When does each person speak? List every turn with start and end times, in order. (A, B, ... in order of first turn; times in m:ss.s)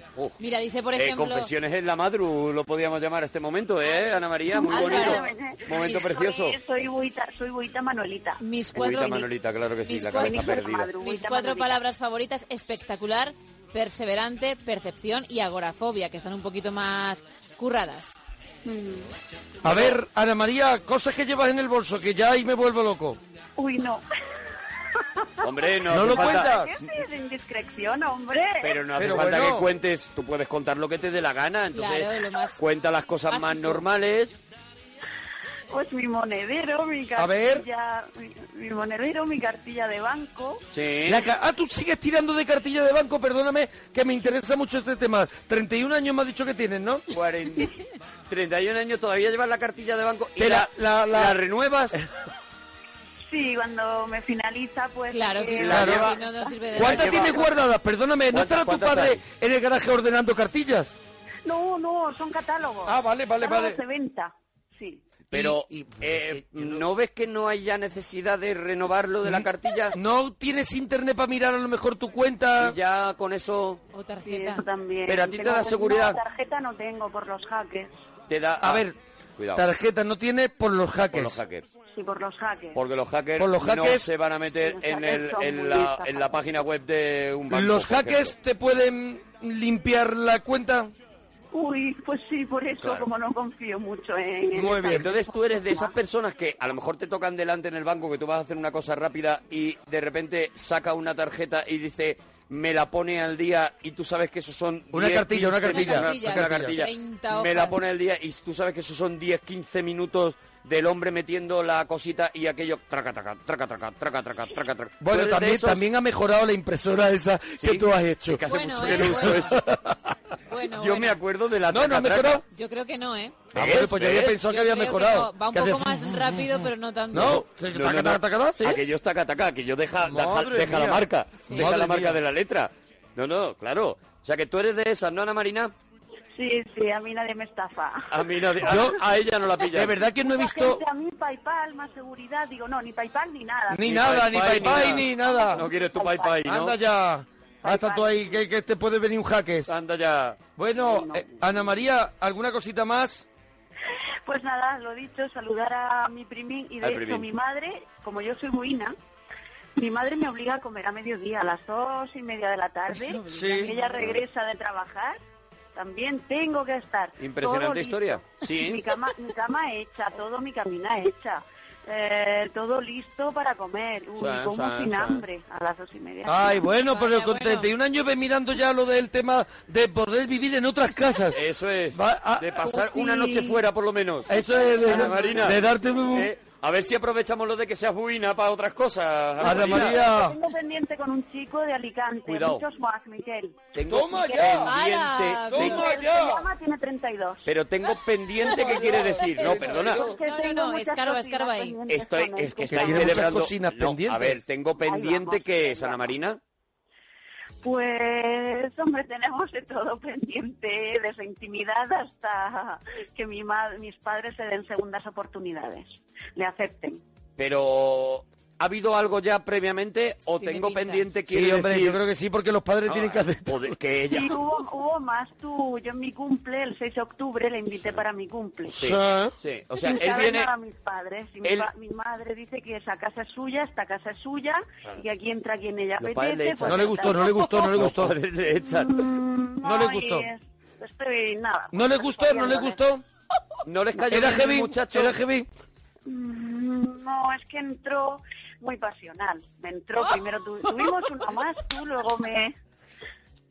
0:00.4-0:01.5 A
0:01.0-0:06.6 B
0:04.5-0:08.4 C
0:04.7-0:05.3 A
0:08.4-0:09.3 A
0:08.8-0:10.9 B
0:09.8-0:18.2 A
0:10.2-0:11.8 C
0:18.7-0:19.1 C
0:19.6-0:20.0 B
0:19.6-0:23.2 D
0:23.6-0:24.0 C
0:24.9-0:28.8 C
0:25.4-0:26.6 B
0:25.9-0:26.7 D
0:28.6-0:34.4 B
0:29.0-0:29.7 D
0:31.7-0:32.6 A
0:33.3-0:33.8 A
0:35.7-0:40.6 C
0:37.2-0:37.6 D
0:40.7-0:41.3 B
0:41.1-0:47.1 D
0:47.1-0:52.0 B
0:50.4-0:51.4 D
0:53.3-0:57.4 C
0:55.1-0:57.3 A
0:55.6-0:56.2 B
0:55.7-0:56.1 D
0:56.8-1:00.9 D
0:56.8-0:57.6 B
0:58.3-0:59.2 B
1:01.4-1:05.0 C
1:02.9-1:03.8 D
1:05.3-1:10.0 B
1:05.3-1:06.8 D
1:09.2-1:12.8 D
1:12.6-1:13.8 B
1:13.9-1:14.6 A
1:14.2-1:17.9 C
1:15.1-1:16.2 B
1:18.3-1:19.7 B
1:18.6-1:19.0 D
1:19.6-1:21.4 D
1:21.1-1:21.6 B
1:21.9-1:22.8 C
1:22.7-1:28.4 B
1:23.4-1:24.1 D
1:24.6-1:26.4 C
1:27.5-1:30.9 D
1:31.5-1:35.9 C
1:32.8-1:33.1 B
1:34.6-1:35.1 D
1:34.9-1:55.9 B
1:44.9-1:46.8 D
1:45.7-1:47.8 A
1:55.0-2:00.1 D
1:57.6-1:59.7 B
1:58.4-1:59.6 A
2:00.5-2:01.2 A
2:00.6-2:02.4 B
2:01.7-2:02.4 D
2:02.4-2:03.6 A
2:03.5-2:04.4 B
2:03.5-2:06.6 D
2:04.4-2:07.4 A
2:07.1-2:08.8 D
2:07.2-2:15.7 B
2:10.0-2:12.2 D
2:11.4-2:11.7 A
2:16.4-2:18.9 C
2:18.1-2:20.0 B
2:18.7-2:19.0 D
2:19.7-2:20.8 D
2:20.1-2:26.4 C
2:23.7-2:25.7 D
2:23.8-2:26.8 B
2:26.4-2:29.7 D
2:27.6-2:28.4 C
2:29.7-2:30.5 B
2:30.5-2:33.2 D
2:30.8-2:31.4 C
2:34.3-2:39.0 C
2:36.8-2:37.3 B
2:39.8-2:45.2 C
2:43.0-2:44.2 A
2:43.3-2:43.7 D
2:45.8-2:56.7 C
2:47.2-2:48.9 B
2:54.2-2:55.2 B
2:56.3-3:01.4 D
2:56.8-2:57.7 A
3:01.3-3:10.1 B
3:01.9-3:02.6 D
3:02.6-3:03.6 C
3:04.3-3:06.3 D
3:04.8-3:05.5 C
3:09.4-3:13.6 C
3:09.4-3:10.4 D
3:12.3-3:12.6 B
3:13.7-3:15.9 B
3:13.9-3:14.9 D
3:14.7-3:15.8 A
3:15.4-3:16.5 D
3:15.5-3:17.5 C
3:17.5-3:20.0 B
3:18.4-3:20.2 D
3:18.7-3:23.4 C
3:19.5-3:21.8 A
3:21.9-3:26.4 B
3:22.7-3:24.4 D
3:24.8-3:26.2 C
3:27.6-3:37.0 C
3:37.4-3:42.0 B
3:40.4-3:41.1 A
3:41.3-3:43.7 D
3:42.9-3:44.4 B
3:44.1-3:48.8 C
3:48.7-3:50.5 B
3:48.8-3:49.4 D
3:49.8-3:57.8 C
3:51.4-3:51.7 B
3:56.0-3:59.1 B
3:56.6-3:58.2 D
3:58.6-4:02.8 C
3:59.6-4:00.3 D
4:01.7-4:03.0 D
4:03.6-4:05.2 B
4:04.1-4:05.5 D
4:06.1-4:12.6 C